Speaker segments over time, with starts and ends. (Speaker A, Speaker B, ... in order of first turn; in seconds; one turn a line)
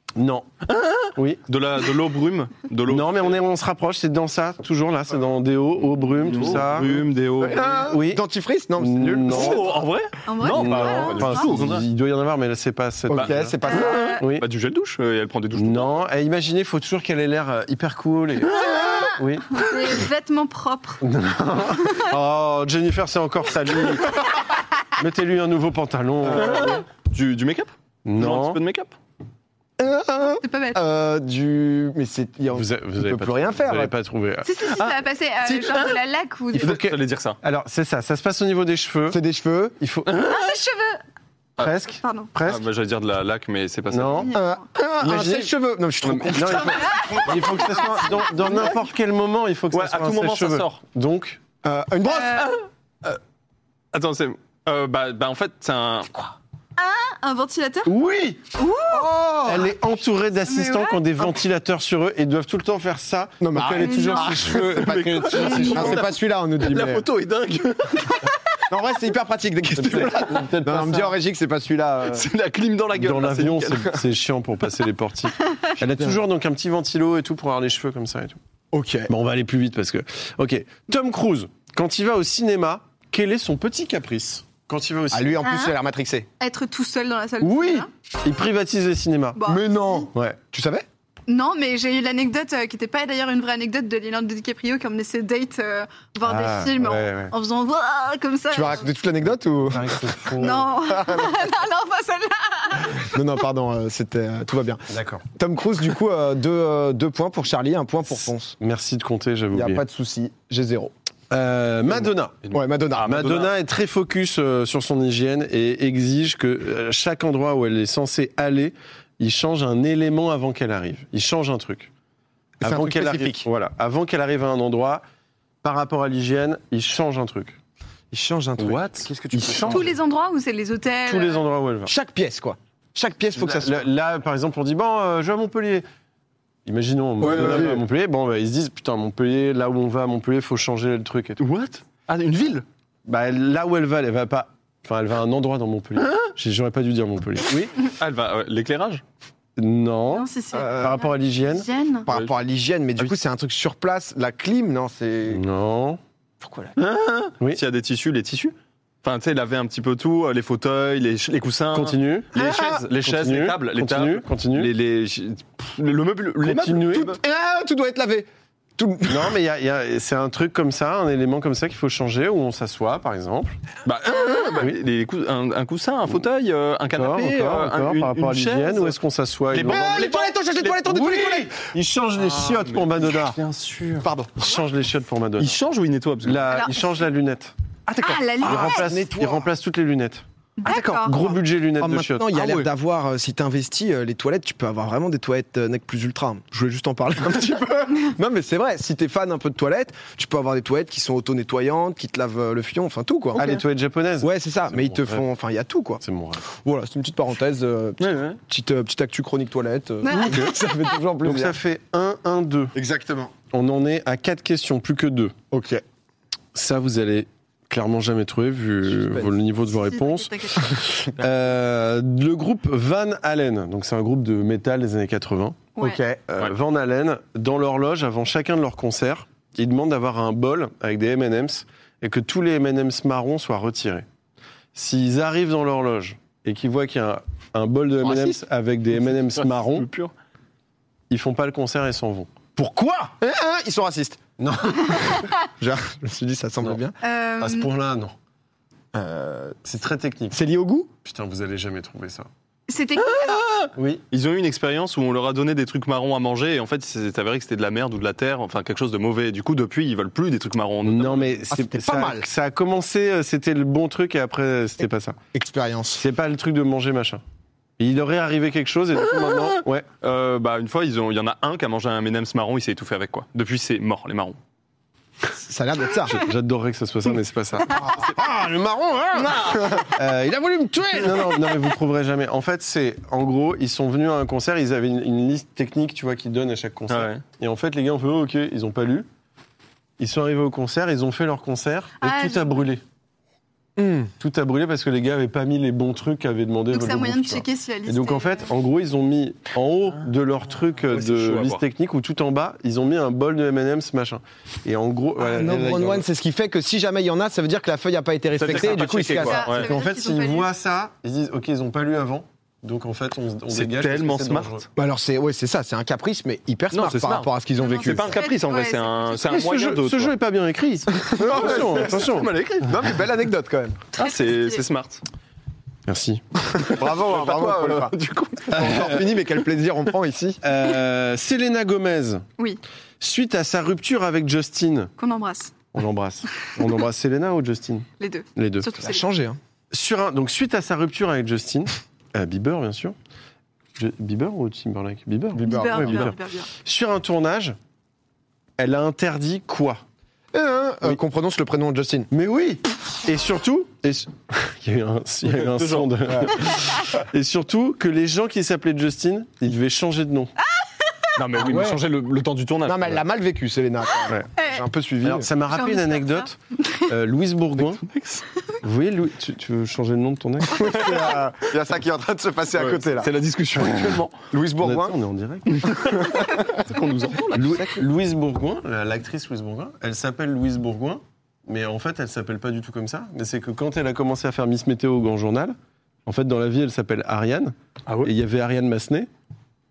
Speaker A: 0.1-0.5
Speaker B: 0.7-3.4
Speaker A: 1.1-1.4
Speaker A: 2.9-7.0
Speaker B: 6.2-7.9
Speaker C: 7.4-9.8
Speaker A: 7.8-8.2
Speaker A: 8.8-9.7
Speaker B: 9.3-11.8
Speaker D: 10.2-11.6
Speaker A: 10.4-13.6
Speaker C: 13.1-14.2
Speaker B: 13.1-16.0
Speaker D: 13.6-14.2
Speaker A: 14.2-14.4
Speaker A: 15.5-20.0
Speaker D: 18.4-21.0
Speaker A: 21.0-24.2
Speaker D: 21.7-22.1
Speaker A: 24.9-26.8
Speaker C: 26.2-26.8
Speaker B: 26.3-28.9
Speaker A: 28.0-28.6
Speaker C: 29.8-33.9
Speaker D: 30.3-30.8
Speaker A: 32.5-34.7
Speaker D: 34.4-36.8
Speaker B: 34.7-36.0
Speaker B: 36.5-37.4
Speaker A: 36.5-39.2
Speaker C: 39.1-39.8
Speaker A: 39.8-40.1
Speaker B: 40.0-40.5
Speaker D: 40.3-41.0
Speaker A: 41.6-42.7
Speaker D: 42.0-42.3
Speaker B: 42.4-44.3
Speaker A: 43.9-44.4
Speaker D: 44.1-44.6
Speaker C: 44.3-47.4
Speaker A: 45.0-51.4
Speaker D: 46.9-48.7
Speaker B: 49.7-50.8
Speaker C: 51.6-52.4
Speaker D: 52.0-52.5
Speaker B: 52.3-53.2
Speaker B: 53.9-56.3
Speaker D: 56.8-57.9
Speaker A: 57.8-58.4
Speaker D: 58.5-59.0
Speaker C: 58.9-59.8
Speaker A: 59.4-66.1
Speaker D: 60.5-61.0
Speaker C: 63.4-67.1
Speaker D: 63.8-64.4
Speaker B: 64.5-68.4
Speaker D: 65.4-65.8
Speaker C: 68.7-72.3
Speaker A: 69.7-71.2
Speaker B: 72.0-74.0
Speaker A: 72.9-78.4
Speaker C: 78.7-79.1
Speaker A: 79.1-85.4
Speaker C: 85.1-86.3
Speaker D: 85.4-85.7
Speaker D: 86.4-87.9
Speaker A: 87.4-89.5
Speaker D: 89.3-90.0
Speaker C: 89.4-90.8
Speaker A: 90.1-90.4
Speaker D: 91.3-98.9
Speaker A: 96.2-97.3
Speaker C: 98.5-99.9
Speaker A: 99.7-100.7
Speaker D: 100.4-103.2
Speaker C: 100.9-101.4
Speaker C: 103.1-108.5
Speaker A: 104.9-105.2
Speaker A: 108.6-109.8
Speaker C: 109.5-110.9
Speaker A: 111.3-112.4
Speaker C: 111.9-113.5
Speaker B: 112.5-113.5
Speaker A: 113.0-121.9
Speaker C: 122.6-123.4
Speaker A: 122.6-125.0
Speaker A: 125.6-127.6
Speaker C: 128.1-129.8
Speaker B: 128.6-129.8
Speaker A: 129.3-129.9
Speaker D: 129.6-131.4
Speaker A: 131.0-131.9
Speaker C: 131.8-133.9
Speaker A: 133.3-135.8
Speaker A: 136.6-141.4
Speaker B: 137.2-137.8
Speaker C: 137.2-137.8
Speaker B: 141.4-142.6
Speaker A: 143.1-147.7
Speaker B: 147.8-149.0
Speaker A: 149.6-151.7
Speaker D: 150.1-152.1
Speaker C: 150.5-151.0
Speaker C: 152.1-155.4
Speaker B: 152.1-152.3
Speaker A: 155.3-156.0
Speaker C: 156.4-156.8
Speaker B: 156.8-167.2
Speaker A: 161.7-162.4
Speaker C: 162.3-162.8
Speaker A: 162.9-164.7
Speaker A: 166.4-167.1
Speaker C: 166.9-169.3
Speaker A: 169.1-173.6
Speaker B: 173.8-178.9
Speaker A: 176.9-183.4
Speaker C: 179.5-181.5
Speaker B: 179.6-180.7
Speaker B: 182.2-184.1
Speaker C: 184.0-184.3
Speaker A: 184.3-185.6
Speaker B: 185.4-186.5
Speaker A: 186.2-187.5
Speaker D: 186.5-186.9
Speaker C: 187.9-189.5
Speaker D: 188.0-188.9
Speaker A: 188.4-190.2
Speaker D: 190.6-191.2
Speaker C: 190.6-203.5
Speaker A: 191.0-192.3
Speaker B: 192.3-192.7
Speaker B: 203.3-203.6
Speaker A: 203.3-205.3
Speaker C: 204.2-211.6
Speaker A: 206.0-206.4
Speaker B: 208.0-208.4
Speaker D: 210.0-210.5
Speaker A: 210.3-210.5
Speaker A: 211.2-212.8
Speaker C: 212.7-213.3
Speaker A: 213.5-215.4
Speaker C: 215.5-215.8
Speaker A: 216.5-234.1
Speaker C: 218.8-219.4
Speaker D: 219.7-220.9
Speaker D: 225.8-226.0
Speaker A: 234.7-239.9
Speaker C: 238.0-238.4
Speaker B: 239.1-240.1
Speaker A: 241.1-243.1
Speaker C: 243.2-244.2
Speaker A: 244.4-245.3
Speaker C: 244.9-246.9
Speaker D: 247.0-247.7
Speaker A: 247.4-248.1
Speaker C: 248.9-249.6
Speaker A: 249.6-250.4
Speaker C: 250.3-250.9
Speaker A: 251.0-252.3
Speaker D: 252.7-253.4
Speaker B: 253.0-261.4
Speaker A: 253.8-254.0
Speaker A: 260.8-265.2
Speaker C: 261.5-262.2
Speaker C: 265.3-266.0
Speaker A: 265.9-267.2
Speaker A: 267.8-269.9
Speaker B: 270.0-274.4
Speaker C: 275.2-276.2
Speaker A: 276.0-289.1
Speaker C: 277.6-278.2
Speaker C: 279.2-279.9
Speaker B: 279.3-279.7
Speaker B: 286.9-287.2
Speaker A: 290.0-292.8
Speaker D: 292.0-292.7
Speaker C: 293.8-294.1
Speaker A: 294.2-306.1
Speaker D: 296.7-298.6
Speaker B: 300.9-301.6
Speaker C: 305.2-309.5
Speaker B: 308.3-309.7
Speaker D: 309.1-310.5
Speaker A: 309.5-314.6
Speaker B: 313.5-314.6
Speaker C: 314.8-318.2
Speaker B: 316.7-317.3
Speaker D: 317.6-319.4
Speaker B: 317.8-320.1
Speaker A: 319.3-322.3
Speaker C: 320.9-322.1
Speaker B: 321.1-322.9
Speaker C: 322.6-323.8
Speaker B: 323.9-325.0
Speaker D: 324.0-324.6
Speaker A: 325.9-326.2
Speaker C: 326.5-327.9
Speaker B: 326.5-329.0
Speaker C: 328.5-330.4
Speaker A: 328.6-329.0
Speaker A: 330.4-332.2
Speaker A: 333.0-334.9
Speaker D: 335.0-335.5
Speaker A: 335.7-338.8
Speaker D: 338.0-339.0
Speaker C: 338.8-339.4
Speaker A: 339.7-342.9
Speaker A: 343.8-347.6
Speaker C: 345.3-346.1
Speaker D: 345.4-346.5
Speaker A: 348.6-349.8
Speaker C: 350.3-352.1
Speaker A: 352.1-360.3
Speaker B: 355.2-356.1
Speaker B: 361.1-363.0
Speaker C: 361.3-361.8
Speaker C: 362.6-365.3
Speaker D: 364.3-364.6
Speaker A: 365.0-367.8
Speaker D: 365.4-366.9
Speaker B: 367.6-368.2
Speaker A: 368.6-371.2
Speaker C: 370.5-373.1
Speaker B: 370.6-371.1
Speaker B: 372.5-374.2
Speaker C: 374.3-374.9
Speaker A: 374.6-376.0
Speaker B: 375.5-377.8
Speaker C: 376.0-376.6
Speaker A: 377.3-389.1
Speaker B: 387.9-388.1